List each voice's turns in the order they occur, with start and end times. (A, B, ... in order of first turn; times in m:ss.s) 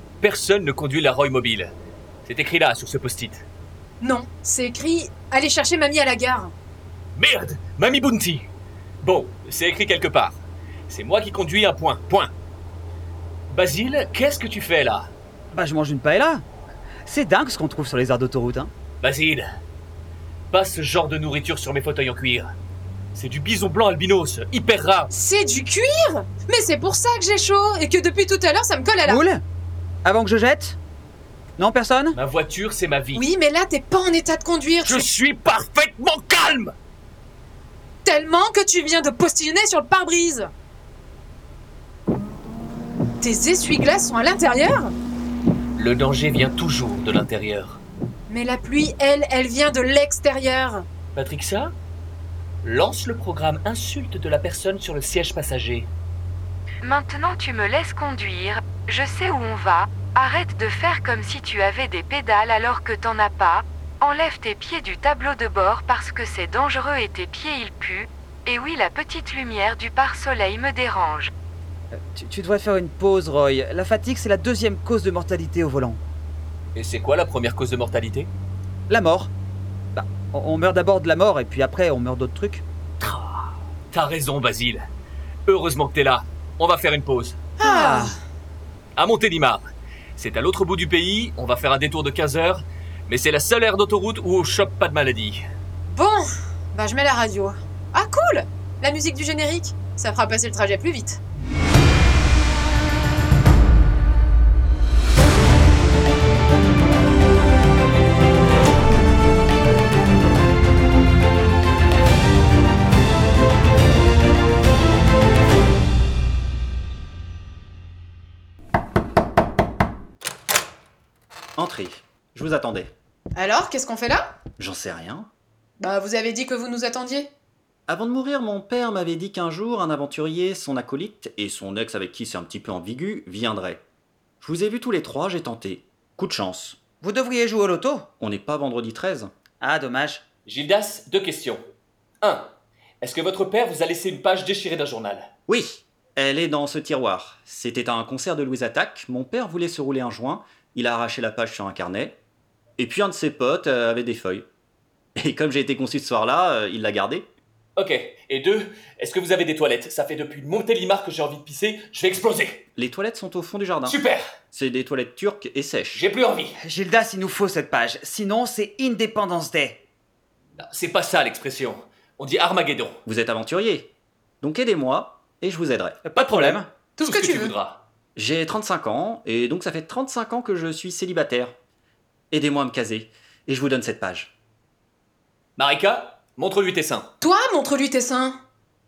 0:00.2-0:01.7 A
0:02.2-0:03.4 A
0:04.0-0:06.5 B
0:07.2-0:08.5 A
0:09.0-0:12.3 A
0:13.5-0:15.1 A
0:15.5-0:16.4 C
0:17.0-0:18.7 C
0:19.0-0:19.5 A
0:20.5-0:22.5 A
0:23.1-0:25.1 A
0:25.1-0:29.2 B
0:29.0-0:29.4 C
0:30.0-0:30.8 C
0:31.6-0:32.2 C
0:32.1-0:33.2 A
0:33.1-0:35.0 B
0:34.8-0:36.7 A
0:38.0-0:40.5 B
0:43.2-0:44.9 B
0:45.8-0:47.8 A
0:48.3-0:50.8 B
0:51.1-0:51.7 A
0:52.6-0:55.9 A
0:56.8-1:11.3 D
1:11.9-1:16.0 C
1:16.7-1:18.3 A
1:18.9-1:19.3 C
1:19.9-1:22.6 C
1:23.0-1:24.8 A
1:25.5-1:27.4 A
1:27.6-1:28.1 B
1:27.6-1:28.1 C
1:29.0-1:35.4 A
1:35.9-1:41.2 B
2:01.6-2:02.9 E
2:03.3-2:04.3 B
2:04.6-2:05.3 E
2:05.8-2:07.3 B
2:07.9-2:13.8 E
2:14.4-2:16.8 E
2:17.0-2:18.0 C
2:18.2-2:19.3 E
2:19.6-2:20.2 C
2:20.4-2:21.6 A
2:22.2-2:25.3 A
2:25.5-2:32.2 E
2:32.8-2:34.4 E
2:35.2-2:37.3 E
2:37.8-2:42.6 A
2:42.8-2:44.0 E
2:43.8-2:44.2 A
2:44.5-2:46.0 E
2:45.9-2:46.6 A
2:46.6-2:49.8 C
2:50.6-2:53.0 A
2:53.0-2:53.9 E
2:54.4-2:56.0 E
2:56.0-2:56.7 C
2:56.1-2:57.8 A
2:57.0-2:57.5 B
2:58.2-3:01.5 E
3:02.3-3:04.3 E
3:05.6-3:07.1 A
3:07.2-3:08.4 B